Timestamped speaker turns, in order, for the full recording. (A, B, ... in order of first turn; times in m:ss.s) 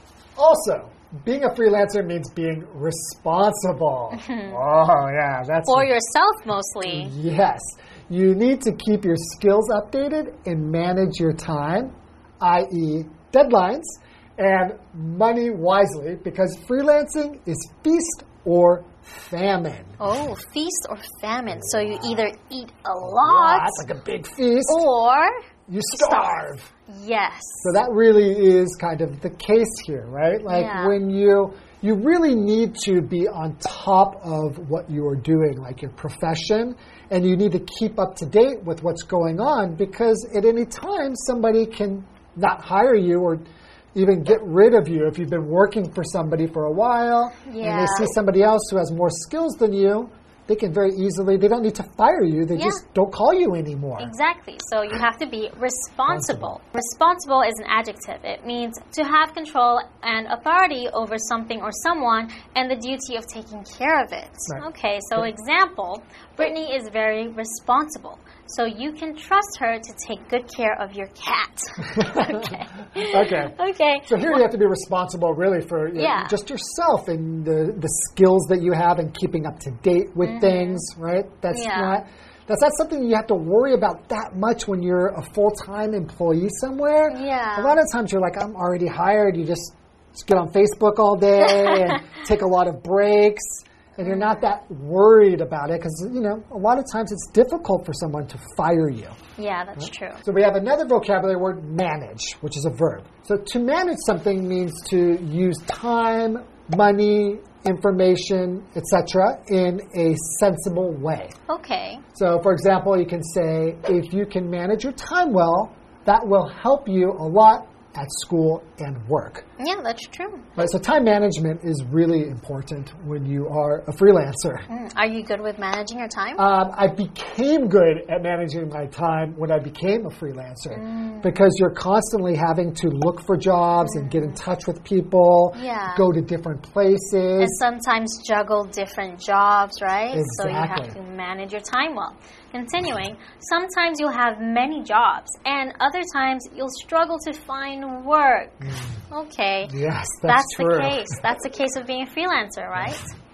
0:00.4-0:05.9 A
0:04.1-0:04.6 B
0:05.7-0:07.1 B
0:06.9-0:20.0 A
0:20.0-0:23.8 B
0:23.2-0:24.8 A
0:24.6-0:25.3 B
0:25.7-0:26.7 A
0:25.9-0:27.7 B
0:27.6-0:54.1 A
0:30.5-0:31.0 B
0:47.4-0:48.1 B
0:52.6-0:52.8 B
0:54.0-1:14.4 B
0:56.1-0:56.5 A
1:12.0-1:13.5 A
1:14.0-1:39.2 A
1:16.0-1:16.4 B
1:20.2-1:20.8 B
1:21.5-1:22.0 B
1:27.1-1:27.8 B
1:31.7-1:32.0 B
1:34.0-1:34.4 B
1:39.4-1:40.2 B
1:39.8-1:51.3 A
1:51.5-1:52.0 B
1:52.1-1:59.5 A
1:59.6-2:00.5 B
2:00.6-2:04.7 A
2:04.7-2:06.4 B
2:06.4-2:17.6 A
2:10.7-2:11.3 B
2:13.8-2:14.4 B
2:15.5-2:16.1 B
2:17.4-2:33.1 B
2:20.1-2:20.9 A
2:28.6-2:29.0 A
2:29.6-2:31.1 A